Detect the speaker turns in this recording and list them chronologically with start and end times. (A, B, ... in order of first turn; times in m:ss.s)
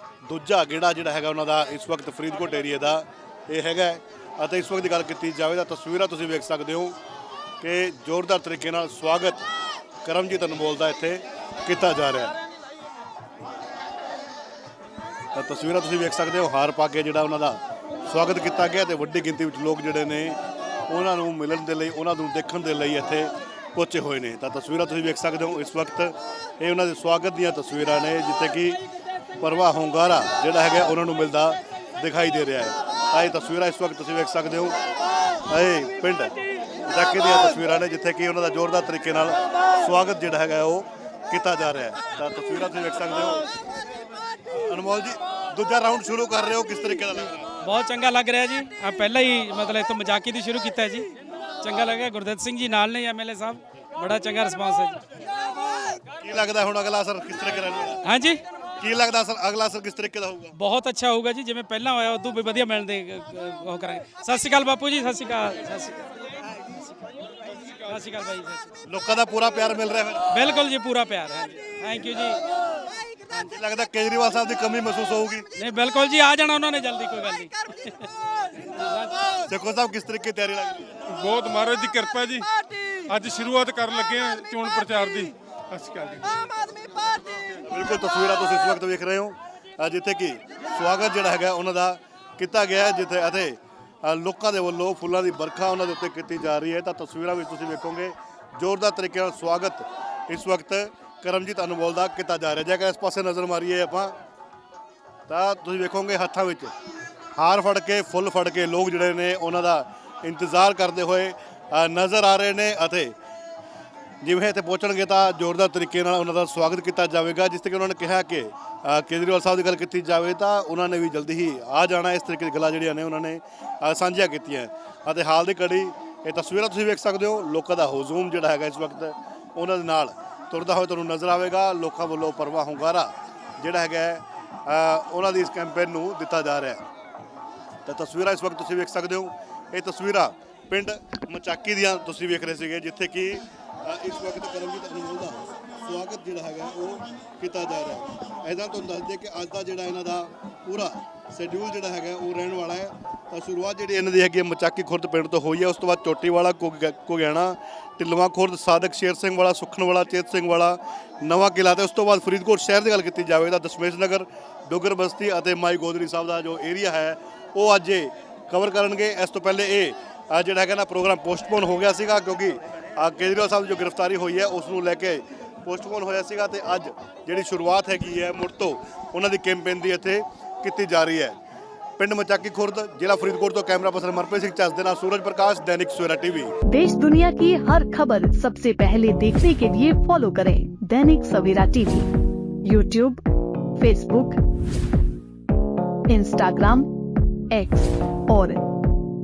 0:00.2-0:07.0 A
0:07.6-0:09.4 A
0:10.0-0:12.4 A
0:15.3-0:28.8 A
0:29.4-0:34.8 A
0:35.5-0:36.3 A
0:36.8-0:43.4 A
0:44.6-0:47.5 A
0:47.6-0:51.1 B
0:51.6-0:55.0 B
0:56.2-0:58.0 A
0:58.0-0:58.4 B
0:58.8-1:00.6 A
1:00.5-1:06.8 B
1:07.6-1:08.8 B
1:08.9-1:10.3 A
1:10.3-1:12.4 B
1:13.3-1:15.5 A
1:15.6-1:19.1 B
1:19.5-1:21.0 A
1:21.1-1:22.4 C
1:23.1-1:26.4 C
1:27.6-1:44.2 A
1:45.3-1:46.7 A
1:47.3-1:53.1 A
1:54.2-2:16.9 A
2:17.8-3:01.4 A
3:02.0-3:06.6 A
3:06.7-3:12.1 D
3:12.6-3:13.2 D
3:13.8-3:14.4 D
3:16.1-3:16.9 D
3:17.5-3:18.6 D